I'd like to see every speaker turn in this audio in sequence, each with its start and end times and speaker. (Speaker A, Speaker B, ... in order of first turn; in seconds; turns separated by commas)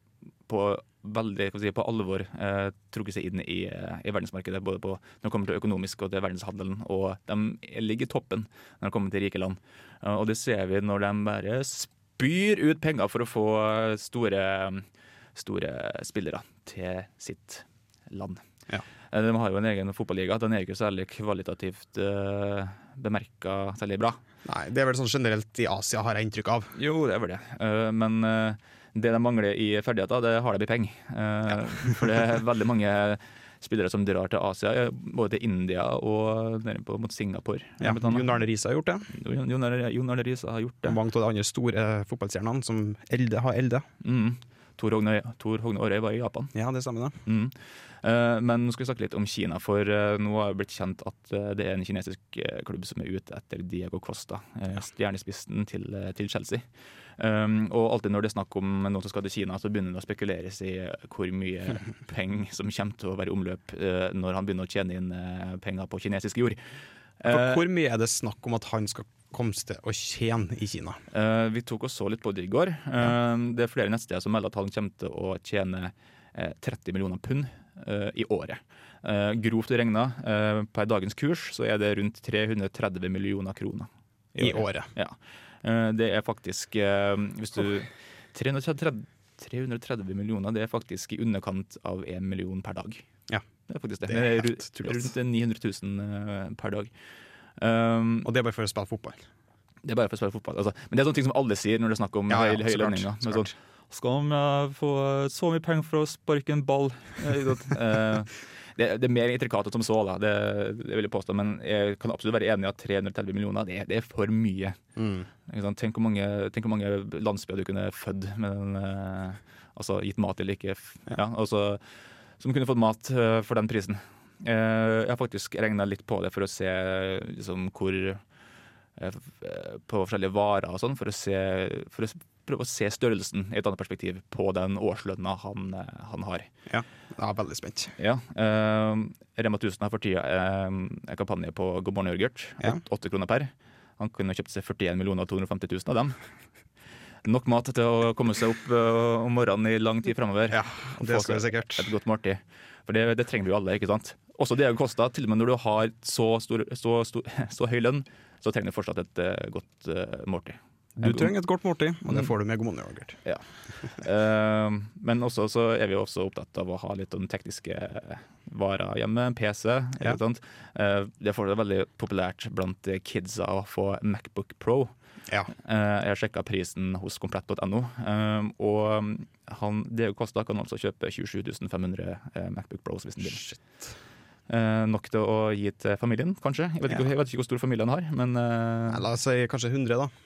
Speaker A: 0.5-18.4, Speaker A: 19.1-24.2, Speaker B: 24.4-26.7, Speaker A: 26.7-38.3, Speaker B: 37.8-39.1, Speaker A: 39.1-41.0, Speaker B: 40.8-43.8, Speaker A: 44.0-46.5, Speaker B: 46.5-47.2, Speaker A: 47.2-56.6, Speaker A: 57.2-66.6, Speaker A: 67.2-67.6, Speaker B: 67.2-71.0, Speaker A: 71.1-93.0, Speaker B: 84.4-84.9, Speaker A: 93.7-96.9, Speaker B: 94.1-95.1, Speaker A: 97.6-98.3, Speaker B: 98.2-99.2, Speaker A: 99.8-114.8, Speaker B: 102.3-103.5, Speaker B: 115.0-115.3, Speaker A: 115.5-121.8, Speaker A: 122.4-128.2, Speaker A: 129.0-136.5, Speaker B: 136.7-137.9, Speaker A: 138.0-146.2, Speaker A: 147.2-161.3, Speaker B: 150.5-151.9, Speaker B: 161.0-163.2, Speaker A: 163.2-174.9, Speaker A: 175.5-183.4, Speaker B: 183.2-183.8, Speaker A: 184.5-189.0, Speaker B: 188.9-190.1